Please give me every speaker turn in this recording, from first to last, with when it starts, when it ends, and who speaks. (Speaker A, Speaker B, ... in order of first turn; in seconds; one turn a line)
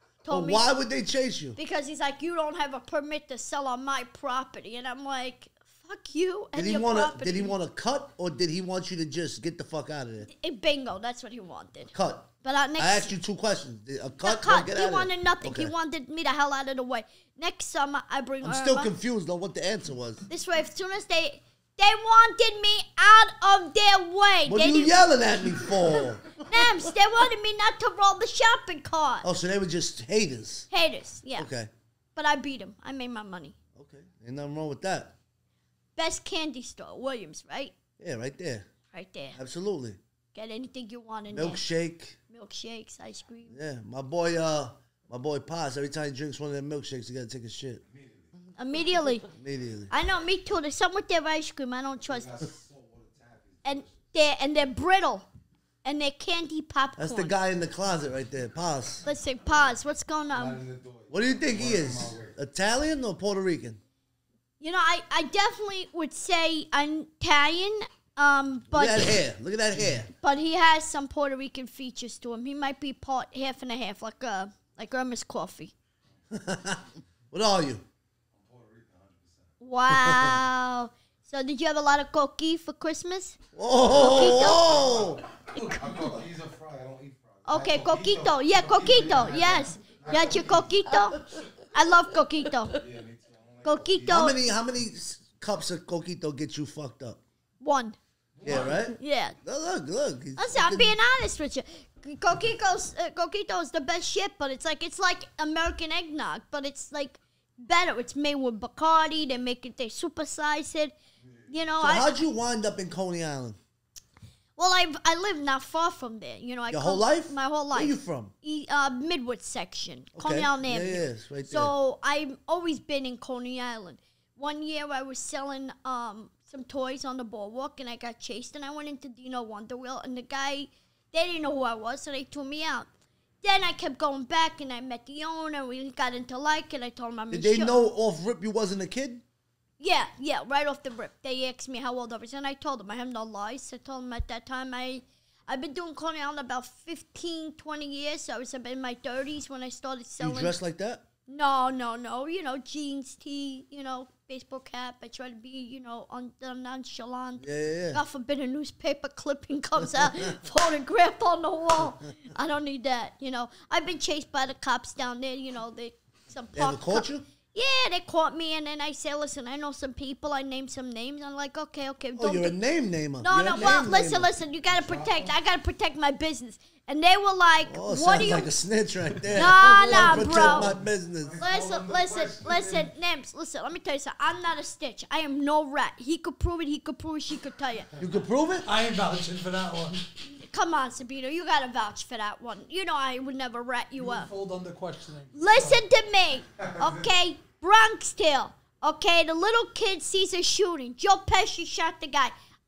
Speaker A: 0.2-0.7
Speaker B: 0.3-1.6
Speaker A: 1.6-7.5
Speaker B: 6.5-10.3
Speaker A: 10.3-13.1
Speaker B: 11.9-15.7
Speaker A: 14.2-18.9
Speaker B: 18.4-20.3
Speaker A: 20.3-25.0
Speaker B: 24.5-26.2
Speaker A: 26.4-29.3
Speaker B: 29.2-30.7
Speaker A: 30.7-31.5
Speaker B: 31.4-31.7
Speaker A: 32.2-33.5
Speaker B: 33.8-35.1
Speaker A: 36.0-37.7
Speaker B: 38.0-38.7
Speaker A: 38.9-39.4
Speaker B: 39.4-40.0
Speaker A: 40.3-41.6
Speaker B: 41.3-42.2
Speaker A: 42.3-43.6
Speaker B: 43.5-47.8
Speaker C: 47.9-48.3
Speaker A: 48.6-49.3
Speaker B: 49.4-49.9
Speaker A: 49.9-52.3
Speaker C: 52.1-54.1
Speaker A: 53.6-55.3
Speaker A: 55.8-57.4
Speaker B: 57.0-59.0
Speaker A: 59.0-60.6
Speaker C: 60.3-62.4
Speaker B: 61.1-63.8
Speaker A: 64.6-69.2
Speaker B: 68.7-70.1
Speaker C: 69.7-70.0
Speaker A: 70.2-75.7
Speaker B: 76.3-77.8
Speaker C: 78.3-79.5
Speaker A: 79.6-83.4
Speaker B: 79.9-80.4
Speaker B: 83.5-85.2
Speaker C: 83.8-90.7
Speaker A: 83.9-84.7
Speaker A: 85.5-86.2
Speaker A: 87.5-92.8
Speaker C: 92.8-94.1
Speaker A: 93.6-94.4
Speaker B: 94.0-97.2
Speaker A: 97.6-98.0
Speaker C: 98.4-98.8
Speaker B: 98.4-100.9
Speaker A: 98.5-99.4
Speaker A: 100.4-110.9
Speaker C: 111.2-111.5
Speaker A: 111.5-112.1
Speaker B: 111.8-113.6
Speaker A: 114.6-132.9
Speaker B: 116.7-118.3
Speaker B: 120.2-121.7
Speaker A: 133.4-137.8
Speaker B: 137.3-139.2
Speaker A: 139.8-150.6
Speaker B: 150.2-151.1
Speaker A: 151.3-172.6
Speaker B: 157.4-158.0
Speaker B: 159.8-160.2
Speaker B: 166.6-167.2
Speaker B: 172.1-174.3
Speaker A: 173.2-178.5
Speaker C: 174.7-175.3
Speaker B: 177.7-181.4
Speaker A: 179.3-180.7
Speaker C: 179.8-182.9
Speaker A: 181.4-187.9
Speaker B: 188.0-188.7
Speaker D: 188.7-190.1
Speaker A: 190.2-194.3
Speaker D: 194.0-195.8
Speaker A: 195.3-202.3